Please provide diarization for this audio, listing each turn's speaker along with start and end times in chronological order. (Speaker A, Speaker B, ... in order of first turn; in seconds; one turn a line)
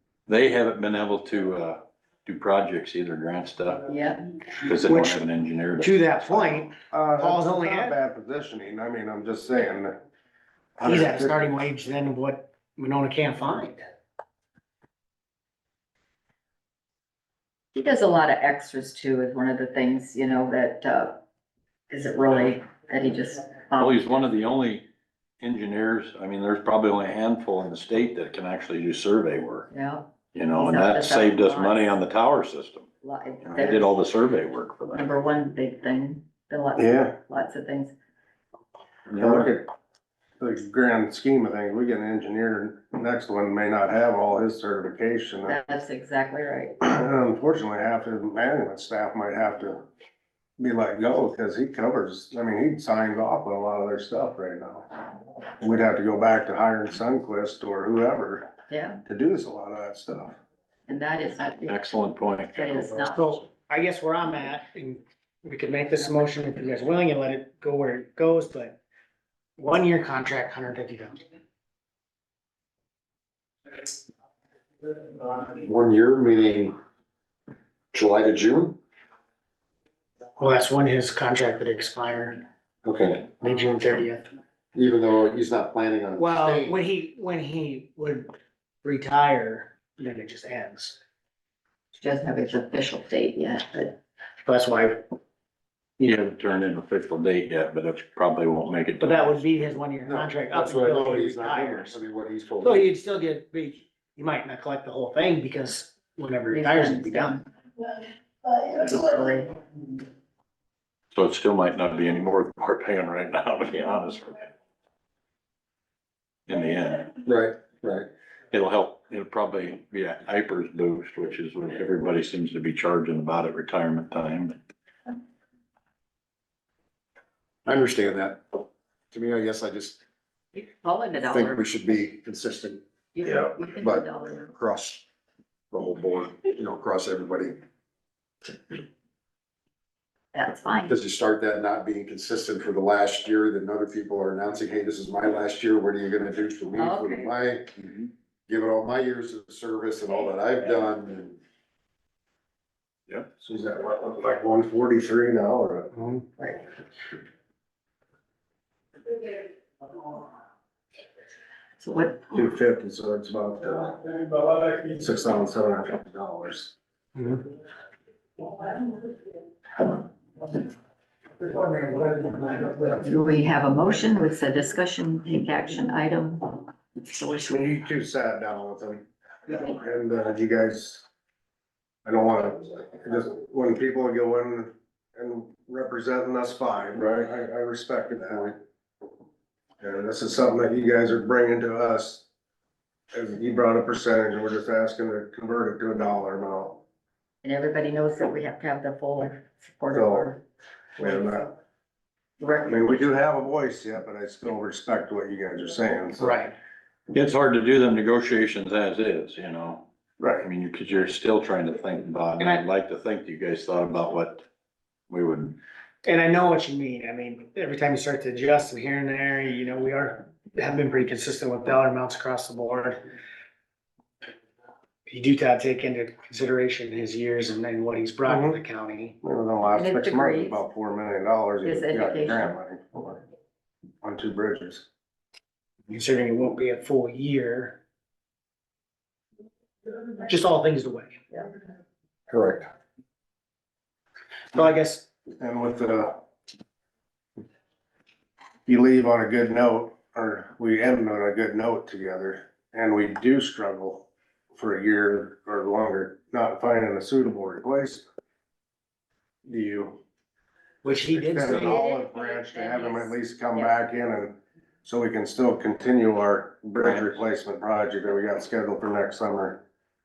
Speaker A: 0.3-3.9
Speaker B: 3.9-4.3
Speaker A: 4.5-6.5
Speaker C: 4.8-5.2
Speaker C: 5.8-8.0
Speaker D: 6.8-9.9
Speaker D: 10.8-11.5
Speaker C: 10.8-13.8
Speaker B: 17.7-21.2
Speaker B: 21.9-24.0
Speaker A: 23.8-24.8
Speaker A: 25.4-29.7
Speaker B: 29.7-31.9
Speaker A: 30.3-32.9
Speaker B: 33.0-34.0
Speaker A: 33.4-35.1
Speaker B: 34.9-37.9
Speaker D: 36.8-37.2
Speaker A: 39.1-39.5
Speaker D: 39.1-39.7
Speaker D: 40.4-45.6
Speaker B: 45.5-46.7
Speaker D: 46.8-49.9
Speaker D: 50.6-54.9
Speaker D: 55.6-58.5
Speaker B: 58.7-59.0
Speaker D: 59.0-60.4
Speaker B: 60.9-61.8
Speaker A: 61.7-62.9
Speaker B: 62.5-63.4
Speaker C: 63.1-68.8
Speaker C: 69.6-71.2
Speaker E: 75.3-76.7
Speaker E: 77.9-78.8
Speaker C: 80.4-82.4
Speaker E: 82.8-83.3
Speaker C: 83.3-84.2
Speaker E: 84.7-86.8
Speaker C: 86.2-91.0
Speaker B: 92.0-94.0
Speaker C: 94.4-95.0
Speaker A: 96.0-99.8
Speaker C: 99.0-102.0
Speaker E: 100.1-102.9
Speaker C: 102.6-107.4
Speaker B: 106.5-107.5
Speaker B: 108.5-109.5
Speaker A: 111.1-114.5
Speaker A: 116.5-117.1
Speaker E: 117.2-118.1
Speaker A: 118.5-124.6
Speaker E: 127.7-130.0
Speaker B: 130.5-131.6
Speaker E: 131.2-132.8
Speaker B: 133.1-134.5
Speaker E: 133.8-135.0
Speaker E: 135.7-137.6
Speaker B: 140.3-140.9
Speaker E: 140.9-151.4
Speaker B: 146.8-147.3
Speaker D: 153.4-155.9
Speaker C: 156.0-156.2
Speaker B: 156.4-156.6
Speaker B: 161.8-162.3
Speaker D: 162.3-166.7
Speaker C: 167.2-167.4
Speaker C: 171.5-172.8
Speaker B: 172.8-177.5
Speaker D: 177.4-181.1
Speaker D: 182.0-188.6
Speaker D: 189.8-192.2
Speaker D: 193.1-196.8
Speaker B: 197.4-200.4
Speaker D: 199.9-200.3
Speaker B: 201.0-201.5
Speaker D: 201.0-201.5
Speaker B: 202.4-202.9
Speaker D: 202.7-206.5
Speaker C: 206.2-206.5
Speaker A: 207.1-209.8
Speaker D: 210.2-210.5
Speaker A: 210.4-214.4
Speaker C: 212.4-212.6
Speaker A: 215.1-215.6
Speaker C: 216.0-223.0
Speaker C: 225.1-229.2
Speaker D: 228.3-228.6
Speaker D: 229.2-233.2
Speaker B: 229.7-230.6
Speaker B: 231.6-232.5
Speaker D: 234.0-234.8
Speaker C: 235.9-237.8
Speaker C: 240.2-241.2
Speaker D: 242.3-242.7
Speaker C: 244.5-245.1
Speaker D: 245.4-246.2
Speaker D: 248.7-258.0
Speaker D: 259.4-260.0
Speaker C: 260.8-261.8
Speaker D: 261.1-269.6
Speaker B: 261.6-263.8
Speaker A: 266.8-267.2